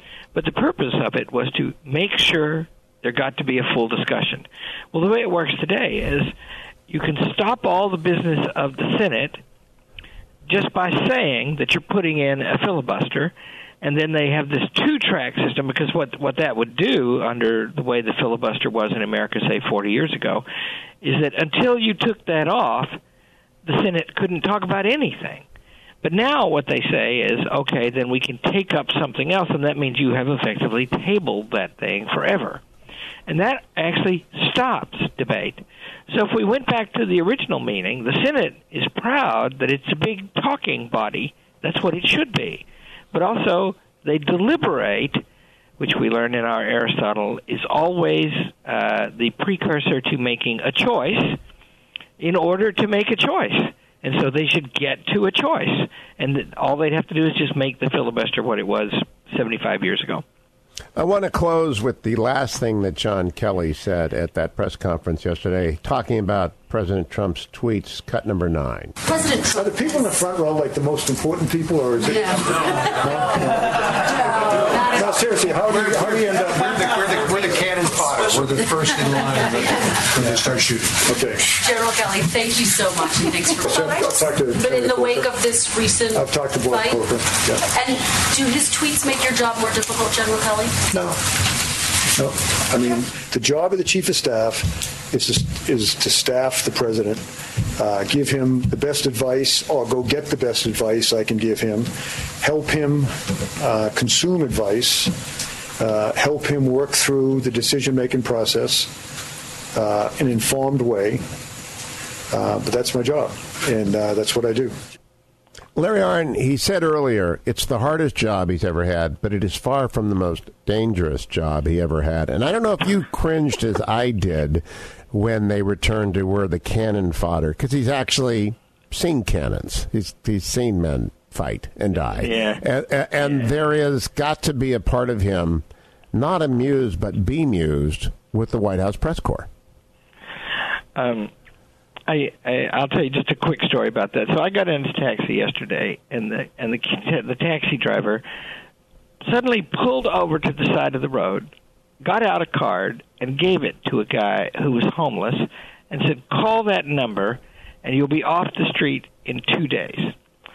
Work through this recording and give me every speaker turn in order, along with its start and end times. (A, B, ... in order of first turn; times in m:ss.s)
0:00.3-0:06.3 A
0:06.9-0:09.4 A
0:10.5-0:20.4 A
0:21.0-0:23.0 A
0:23.6-0:25.4 A
0:26.0-0:32.6 A
0:33.3-0:45.2 A
0:45.8-0:51.4 A
0:52.2-1:00.2 A
1:01.0-1:08.9 B
1:09.0-1:10.0 C
1:09.5-1:18.5 D
1:12.1-1:12.4 C
1:14.3-1:15.1 C
1:15.7-1:21.2 E
1:19.0-1:19.9 C
1:21.0-1:21.6 D
1:21.6-1:27.0 C
1:23.6-1:25.3 D
1:26.1-1:27.7 D
1:27.7-1:30.8 C
1:30.9-1:31.2 D
1:32.1-1:49.0 D
1:49.7-1:51.3 D
1:52.3-1:54.8 D
1:55.8-2:19.5 B
2:12.2-2:12.6 A
2:20.9-2:21.3 A
2:22.1-2:28.2 A
2:29.2-2:31.5 A
2:32.0-2:40.1 A